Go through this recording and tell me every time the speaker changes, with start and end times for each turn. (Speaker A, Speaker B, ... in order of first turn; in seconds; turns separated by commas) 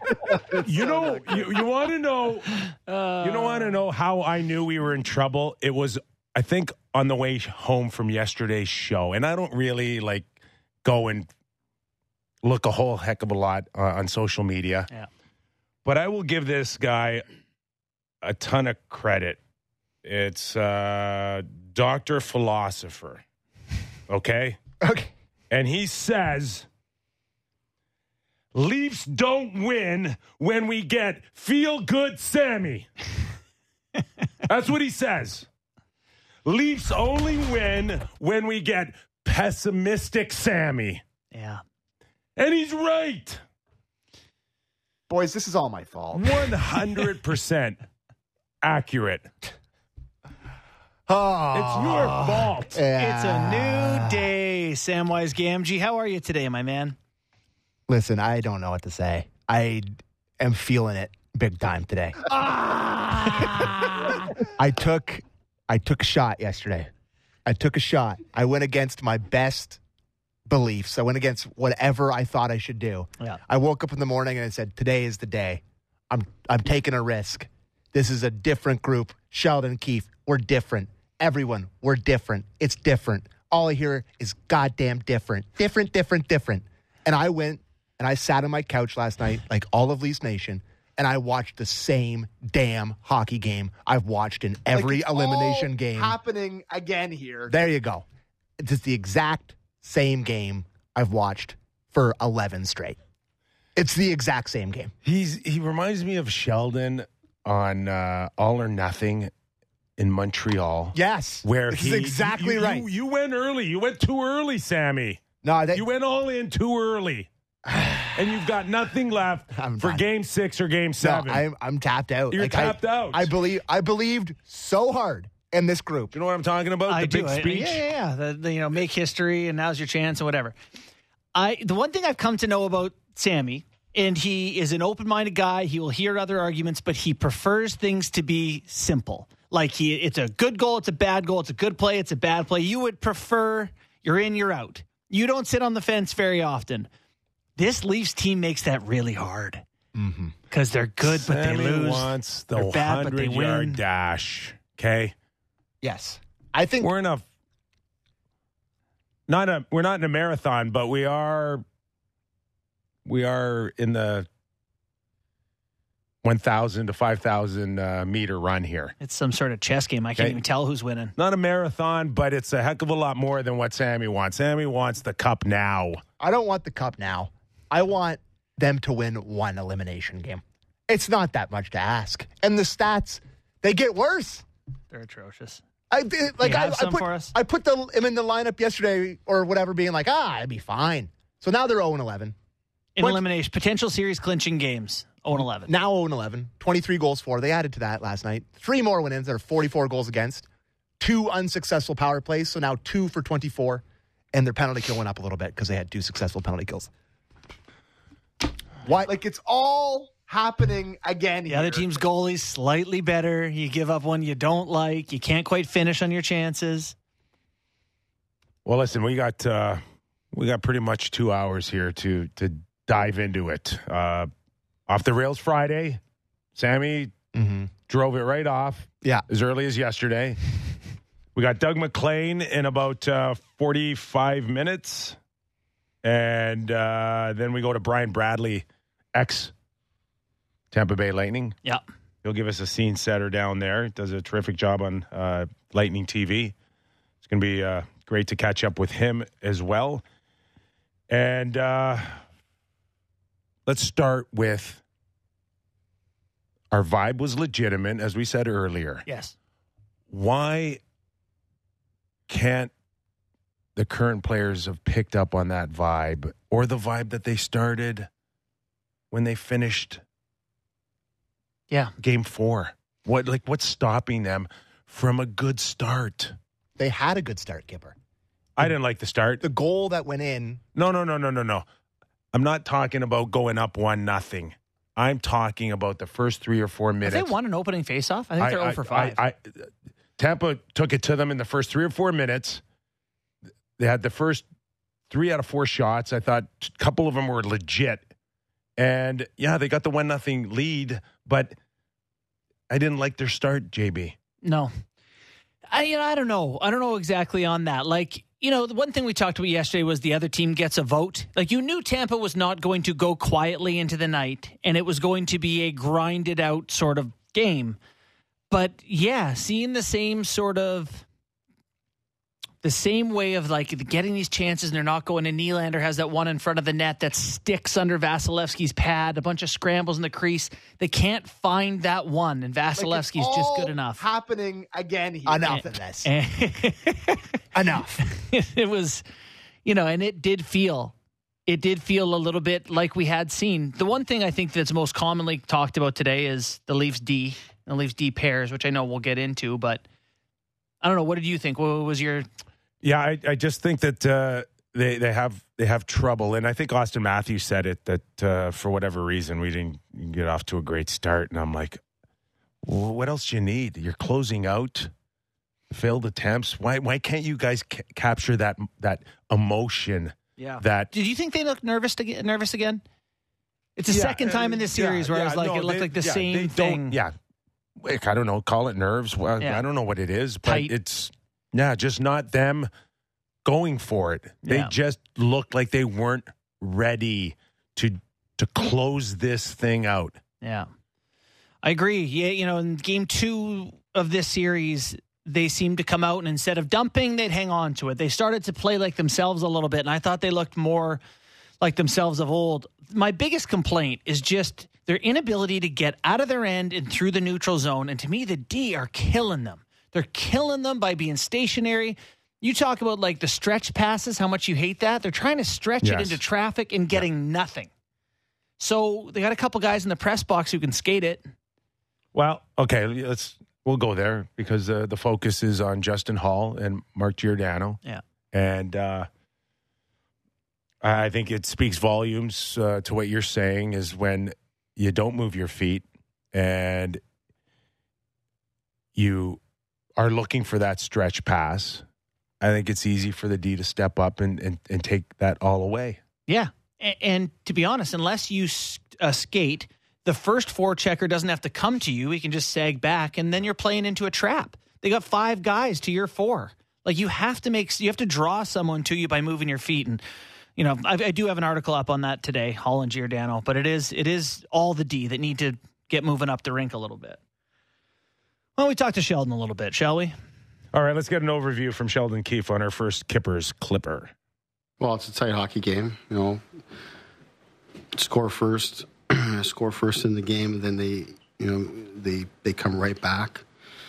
Speaker A: 0.6-2.6, Speaker B: 2.9-3.8, Speaker A: 3.2-10.3, Speaker A: 10.8-11.3, Speaker A: 12.4-14.9, Speaker A: 15.8-17.2, Speaker A: 18.2-19.4, Speaker A: 20.0-23.2, Speaker A: 24.1-24.6, Speaker C: 24.8-25.1, Speaker A: 25.5-26.7, Speaker A: 28.5-32.9, Speaker A: 34.4-35.5, Speaker A: 36.4-41.0, Speaker B: 41.3-41.6, Speaker A: 42.4-43.4, Speaker C: 45.1-46.6, Speaker A: 46.1-47.8, Speaker A: 48.6-49.3, Speaker C: 51.1-54.3, Speaker A: 51.5-52.8, Speaker B: 52.9-57.0, Speaker C: 57.9-66.9, Speaker C: 67.4-69.8, Speaker C: 70.5-96.2, Speaker D: 94.7-97.5, Speaker C: 97.5-98.0, Speaker C: 98.6-103.0, Speaker C: 103.7-104.9, Speaker A: 105.0-109.3, Speaker A: 110.0-117.3, Speaker C: 110.9-112.8, Speaker C: 115.4-115.8, Speaker C: 117.7-118.3, Speaker A: 118.1-121.4, Speaker C: 119.5-120.0, Speaker C: 121.0-126.1, Speaker A: 122.3-123.3, Speaker A: 126.1-127.8, Speaker B: 126.9-130.6, Speaker B: 131.3-146.9, Speaker B: 147.6-149.6, Speaker C: 149.9-150.3, Speaker B: 150.5-153.8, Speaker A: 151.0-155.1, Speaker C: 155.8-156.9, Speaker A: 156.8-157.2, Speaker A: 159.3-161.6, Speaker A: 163.1-164.3, Speaker A: 166.2-168.9, Speaker B: 169.0-171.1, Speaker A: 171.2-176.0, Speaker C: 176.2-184.4, Speaker B: 184.9-185.6, Speaker C: 185.9-192.3, Speaker B: 186.4-187.3, Speaker B: 192.9-195.7, Speaker C: 193.0-193.2, Speaker C: 195.7-200.5, Speaker C: 201.0-206.9, Speaker C: 208.8-211.9, Speaker B: 211.5-216.9, Speaker A: 218.6-219.8, Speaker A: 220.3-224.3, Speaker A: 224.9-226.0, Speaker A: 226.6-227.1, Speaker C: 227.3-227.7, Speaker A: 227.9-230.6, Speaker A: 231.3-235.2, Speaker A: 236.0-239.5, Speaker A: 240.7-241.6, Speaker A: 242.2-246.5, Speaker A: 247.2-250.0, Speaker A: 251.1-252.2, Speaker A: 253.7-254.8, Speaker A: 256.7-259.0, Speaker B: 259.1-259.3, Speaker A: 260.1-260.8, Speaker A: 262.3-262.7, Speaker A: 263.8-268.1, Speaker A: 269.1-270.0, Speaker A: 272.0-276.3, Speaker C: 276.8-277.9, Speaker A: 278.6-279.4, Speaker C: 279.4-280.6, Speaker A: 280.7-281.6, Speaker A: 282.3-287.3, Speaker B: 287.0-289.2, Speaker A: 288.4-292.6, Speaker A: 293.8-294.4, Speaker A: 295.1-298.0, Speaker A: 298.8-301.5, Speaker A: 302.7-304.2, Speaker B: 304.4-304.7, Speaker B: 305.7-317.8, Speaker B: 318.5-321.0, Speaker B: 322.6-334.0, Speaker C: 332.8-336.1, Speaker B: 335.4-337.2, Speaker C: 337.5-338.1, Speaker B: 338.0-339.0, Speaker B: 339.6-340.9, Speaker B: 341.5-349.8, Speaker B: 350.8-352.2, Speaker A: 352.8-361.8, Speaker A: 362.6-364.9, Speaker A: 365.7-370.9, Speaker B: 370.4-372.8, Speaker B: 373.8-377.0, Speaker A: 373.9-377.1, Speaker A: 377.8-382.7, Speaker B: 380.4-380.7, Speaker A: 383.4-390.2, Speaker B: 384.4-384.7, Speaker B: 390.4-390.7, Speaker B: 391.6-401.0, Speaker B: 401.6-417.7, Speaker A: 415.8-416.2, Speaker B: 418.6-421.3, Speaker A: 422.1-427.8, Speaker A: 428.3-429.1, Speaker A: 430.8-437.0, Speaker A: 438.9-439.4, Speaker A: 439.9-441.8, Speaker A: 442.4-446.0, Speaker B: 446.3-460.0, Speaker B: 460.6-467.2, Speaker B: 468.6-470.1, Speaker A: 470.7-474.1, Speaker E: 474.8-476.6, Speaker E: 477.9-483.4